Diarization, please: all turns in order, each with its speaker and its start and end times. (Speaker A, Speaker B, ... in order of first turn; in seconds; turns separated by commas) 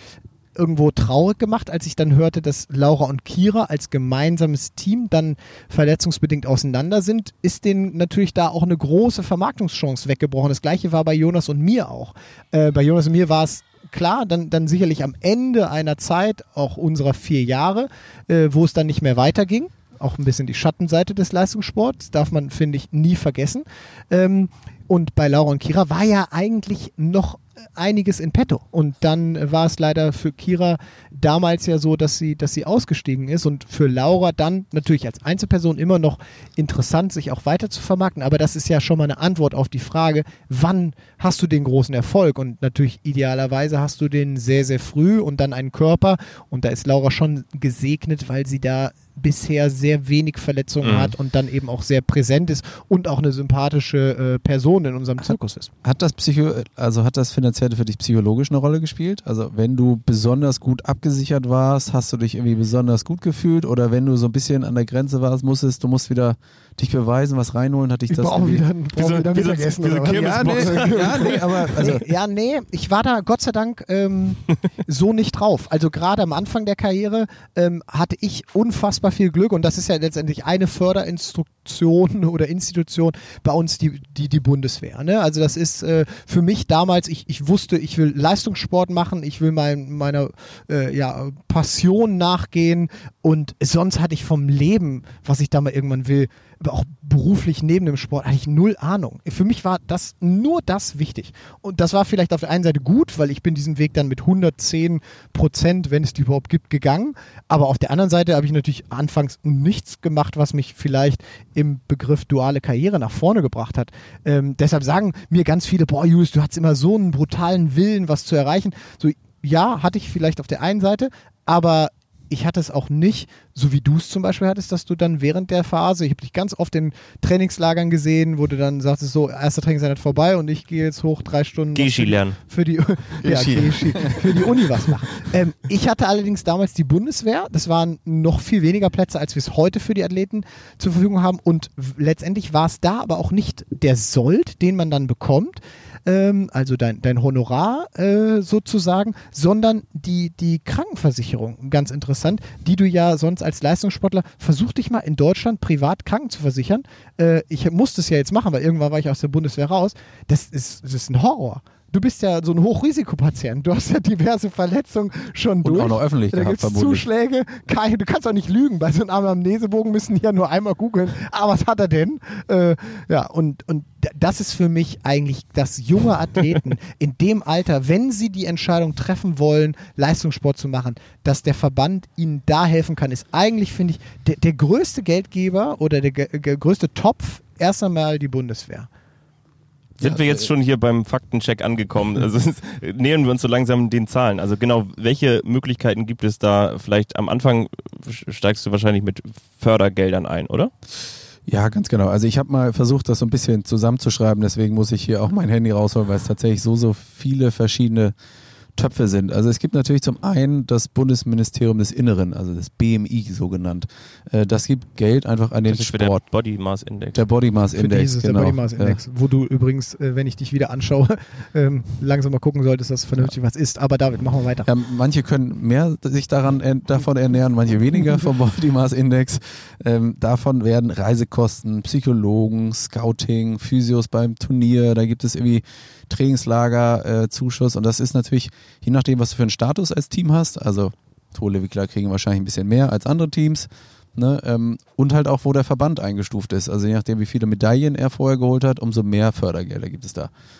Speaker A: 0.6-55.7, Speaker B: 50.8-51.1, Speaker C: 55.8-68.6, Speaker A: 68.1-188.9, Speaker B: 69.0-71.4, Speaker C: 70.1-72.1, Speaker B: 131.7-132.4, Speaker C: 133.2-134.6, Speaker C: 165.6-167.1, Speaker B: 190.0-200.7, Speaker C: 190.0-190.3, Speaker C: 201.5-208.1, Speaker C: 208.8-216.2, Speaker B: 215.7-217.2, Speaker C: 217.1-219.0, Speaker A: 217.7-224.7, Speaker C: 224.6-250.3